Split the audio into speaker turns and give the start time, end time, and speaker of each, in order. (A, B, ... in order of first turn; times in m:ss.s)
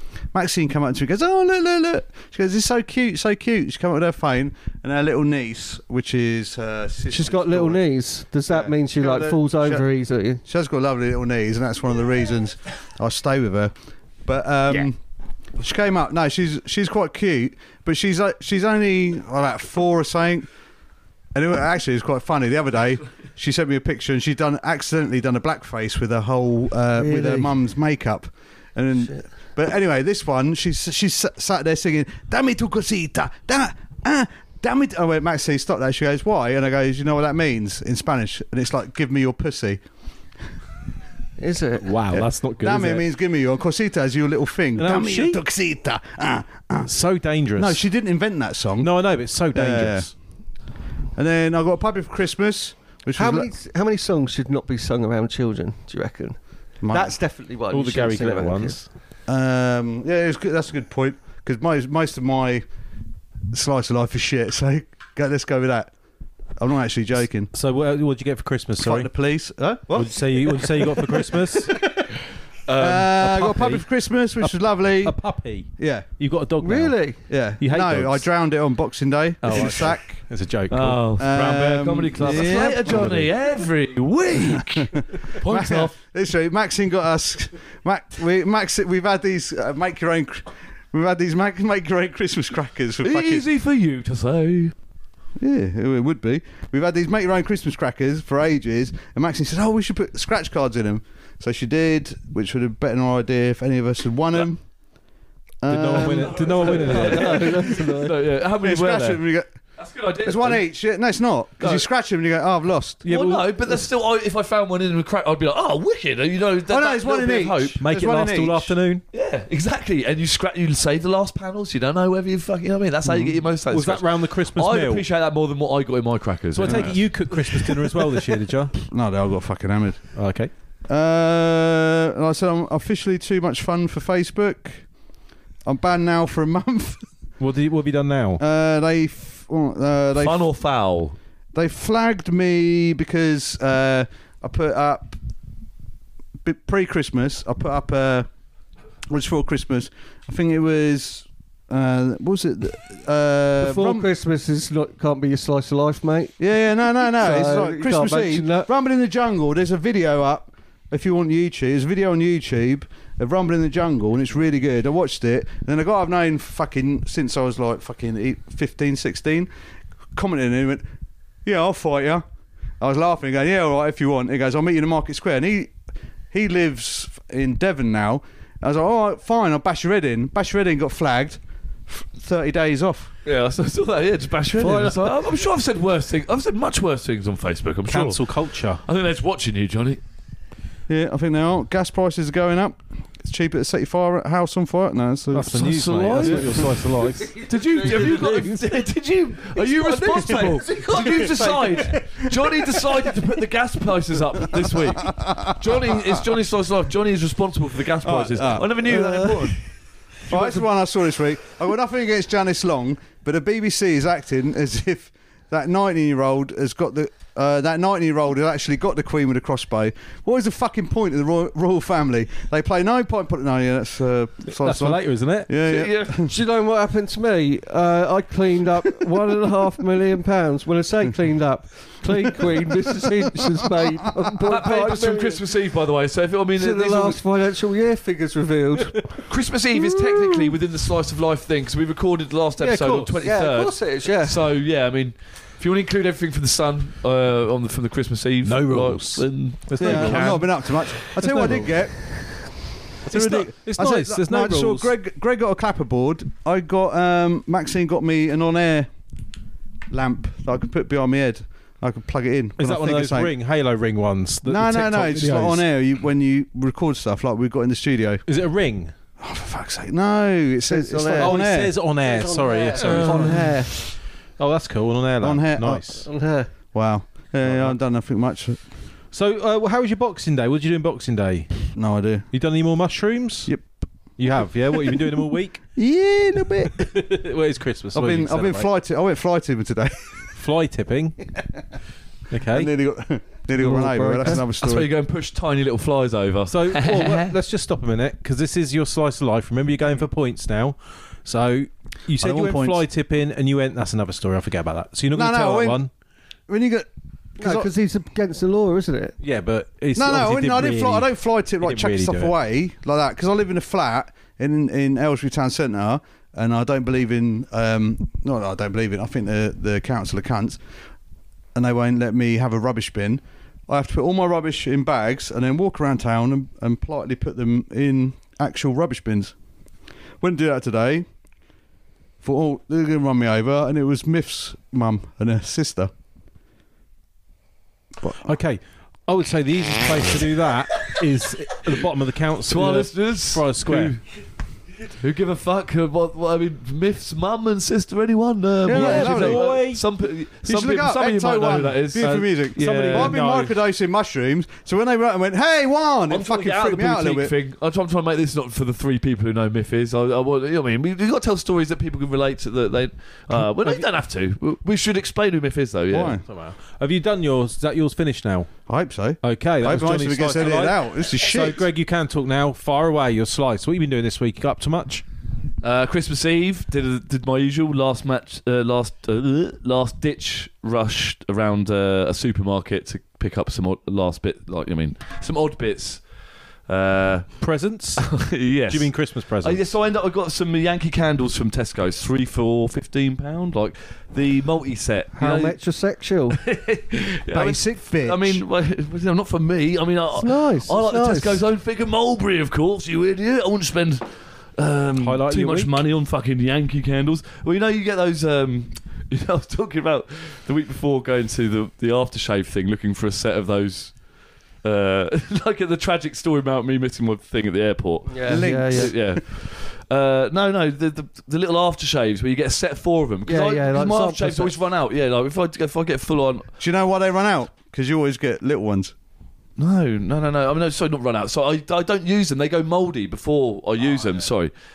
0:00.3-0:07.8 A
0:07.1-0:10.4 B
0:08.5-0:09.8 A
0:10.4-0:13.7 A
0:14.2-0:15.0 A
0:15.6-0:20.5 A
0:21.3-0:39.8 A
0:27.0-0:27.5 B
0:41.4-0:41.9 B
0:41.8-0:43.0 C
0:42.1-0:46.9 A
0:44.8-0:45.4 C
0:46.8-0:47.8 C
0:47.6-0:50.1 A
0:48.8-0:50.1 C
0:51.2-0:53.5 A
0:53.2-0:56.4 B
0:56.8-0:57.2 A
0:56.9-0:58.8 B
0:57.7-0:58.9 C
0:59.3-1:02.6 A
1:03.5-1:05.9 A
1:06.6-1:07.5 A
1:07.5-1:09.1 C
1:08.8-1:11.3 A
1:09.9-1:11.8 C
1:12.7-1:13.0 D
1:12.7-1:13.9 C
1:12.8-1:15.2 A
1:14.4-1:17.0 C
1:15.8-1:16.1 A
1:16.6-1:17.2 B
1:17.3-1:20.2 A
1:17.6-1:18.3 C
1:19.4-1:21.2 C
1:20.7-1:26.0 D
1:21.2-1:23.2 A
1:22.2-1:23.3 C
1:24.6-1:33.4 A
1:33.0-1:34.7 D
1:35.4-1:44.6 A
1:45.6-1:47.3 A
1:45.7-1:47.7 C
1:46.0-1:49.2 D
1:46.6-1:48.2 B
1:48.6-1:49.5 A
1:49.8-1:50.7 D
1:50.2-1:53.0 A
1:51.6-1:51.9 D
1:53.0-1:53.5 C
1:53.0-1:57.8 D
1:56.7-1:58.7 A
1:57.8-1:59.0 C
1:59.1-2:08.0 D
2:03.7-2:05.0 C
2:06.5-2:08.8 C
2:08.8-2:10.1 A
2:10.1-2:10.5 C
2:10.9-2:14.9 A
2:15.6-2:17.0 A
2:17.4-2:18.4 C
2:18.4-2:20.5 A
2:20.2-2:21.2 D
2:21.5-2:25.2 A
2:26.4-2:28.3 A
2:29.1-2:34.1 A
2:33.6-2:36.4 B
2:36.4-2:49.5 A
2:37.1-2:38.7 B
2:50.1-2:50.9 A
2:51.4-2:52.2 A
2:52.8-2:55.7 A
2:56.3-3:03.1 A
3:03.2-3:10.0 D
3:07.9-3:08.8 C
3:10.9-3:15.7 A
3:15.3-3:18.2 C
3:15.5-3:16.8 D
3:17.0-3:18.6 B
3:17.3-3:29.6 D
3:19.5-3:23.2 B
3:25.1-3:25.6 A
3:28.0-3:29.0 A
3:28.8-3:29.5 B
3:30.3-3:46.3 A
3:30.3-3:30.6 B
3:44.6-3:45.5 C
3:45.6-3:46.2 D
3:46.2-3:55.5 B
3:54.4-3:57.2 D
3:56.6-3:59.2 B
3:59.3-4:10.5 D
3:59.7-4:00.5 B
4:02.6-4:04.4 B
4:08.4-4:11.8 C
4:09.8-4:12.1 A
4:13.0-4:14.9 C
4:13.1-4:18.9 A
4:19.9-4:23.3 A
4:22.6-4:25.6 C
4:24.4-4:28.2 A
4:28.3-4:28.9 C
4:29.2-4:31.8 A
4:30.7-4:31.4 B
4:31.2-4:33.8 C
4:32.0-4:33.8 B
4:34.4-4:36.0 C
4:35.2-4:36.1 A
4:36.0-4:36.5 B
4:36.7-4:38.6 A
4:37.4-4:37.8 C
4:39.1-4:41.7 C
4:41.7-4:42.3 A
4:42.3-4:43.5 C
4:44.2-4:45.6 C
4:45.8-4:46.7 A
4:46.8-4:48.7 C
4:47.9-4:50.2 A
4:50.3-4:51.2 C
4:52.3-4:52.7 C
4:52.5-4:54.9 A
4:53.6-4:54.4 B
4:54.4-4:57.4 D
4:56.5-5:05.9 C
5:02.2-5:02.8 A
5:05.1-5:05.8 A
5:06.5-5:06.9 A
5:07.4-5:07.7 A
5:07.4-5:09.2 B
5:09.2-5:11.1 C
5:09.9-5:20.6 A
5:11.6-5:12.3 C
5:21.5-5:29.3 A
5:30.2-5:31.0 A
5:32.2-5:35.9 A
5:38.2-5:43.9 C
5:42.5-5:44.0 D
5:44.8-5:53.2 D
5:48.7-5:49.5 A
5:48.7-5:49.8 C
5:50.4-5:57.3 A
5:52.0-5:53.6 C
5:56.1-6:06.2 D
6:05.9-6:06.2 A
6:06.2-6:08.5 C
6:08.7-6:11.6 A
6:09.2-6:15.0 C
6:15.6-6:26.0 D
6:26.7-6:27.3 D
6:27.4-6:29.6 C
6:28.0-6:35.6 D
6:35.2-6:36.4 B
6:36.3-6:54.0 D
6:37.3-6:37.8 B
6:37.4-6:38.4 A
6:40.1-6:41.4 B
6:45.0-6:45.7 C
6:54.6-7:06.5 D
6:58.1-6:58.9 B
6:58.3-6:59.2 A
7:03.2-7:04.5 B
7:06.6-7:08.9 A
7:09.6-7:14.5 D